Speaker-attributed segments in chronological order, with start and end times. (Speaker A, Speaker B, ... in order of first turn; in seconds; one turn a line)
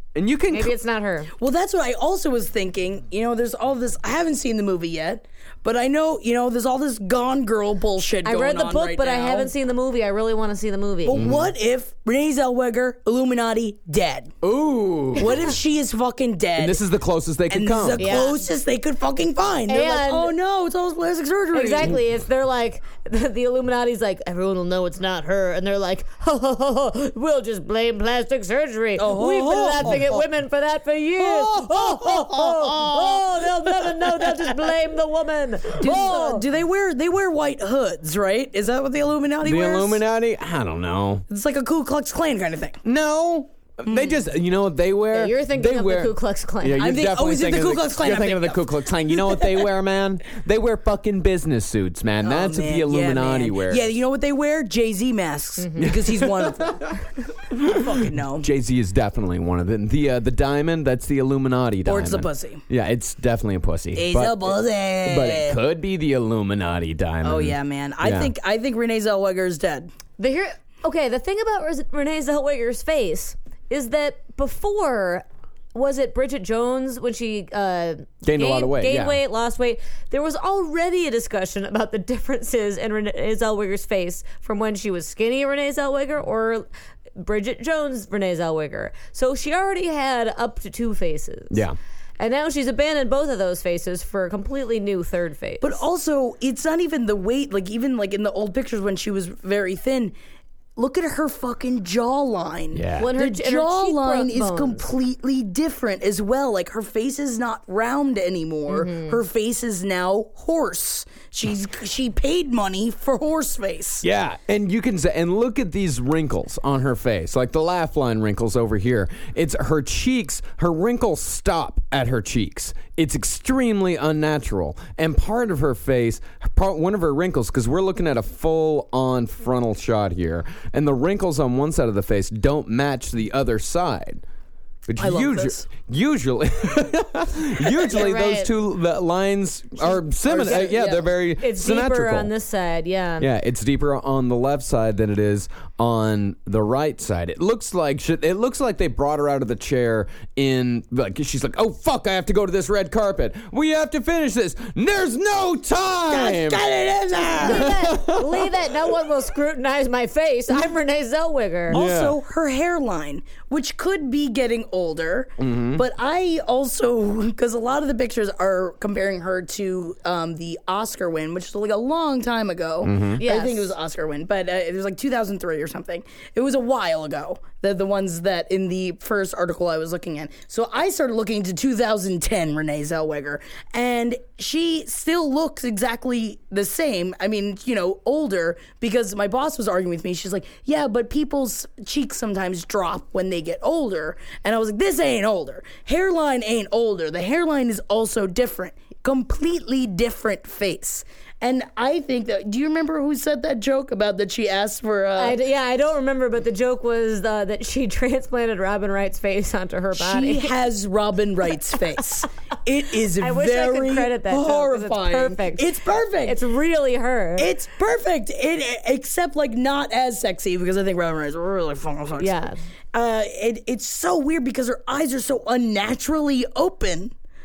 Speaker A: 0.1-0.7
Speaker B: 0.5-1.3
Speaker C: 1.4-9.5
Speaker B: 8.2-11.2
Speaker C: 11.0-14.3
Speaker A: 11.1-11.5
Speaker A: 14.4-15.5
Speaker C: 15.1-16.8
Speaker A: 16.6-18.2
Speaker C: 17.5-22.0
Speaker B: 18.0-18.4
Speaker B: 19.7-20.3
Speaker B: 21.5-36.4
Speaker C: 29.0-30.2
Speaker C: 31.2-34.5
Speaker C: 35.8-40.0
Speaker A: 39.4-41.2
Speaker C: 41.3-42.8
Speaker A: 42.8-53.9
Speaker C: 43.9-44.2
Speaker B: 45.1-46.9
Speaker C: 46.8-49.7
Speaker C: 52.2-57.0
Speaker B: 55.6-56.0
Speaker A: 55.8-56.9
Speaker A: 57.5-68.3
Speaker C: 57.6-58.5
Speaker C: 61.9-62.6
Speaker C: 63.9-65.6
Speaker C: 67.2-69.9
Speaker B: 70.2-91.6
Speaker A: 78.2-79.2
Speaker A: 91.5-91.8
Speaker B: 92.2-95.8
Speaker C: 95.6-100.1
Speaker C: 100.8-114.0
Speaker A: 102.7-103.1
Speaker B: 103.0-104.8
Speaker B: 108.7-109.2
Speaker A: 114.0-134.2
Speaker A: 134.9-142.3
Speaker C: 135.0-135.7
Speaker B: 137.7-138.5
Speaker C: 139.8-141.1
Speaker B: 141.4-143.3
Speaker A: 143.2-158.7
Speaker C: 156.1-157.8
Speaker B: 157.4-161.8
Speaker A: 161.7-162.2
Speaker C: 161.7-205.4
Speaker A: 165.4-165.8
Speaker A: 172.8-173.2
Speaker B: 173.2-173.7
Speaker B: 205.2-210.5
Speaker C: 209.9-216.4
Speaker B: 213.2-217.5
Speaker C: 217.4-222.4
Speaker B: 222.2-222.6
Speaker C: 222.9-227.1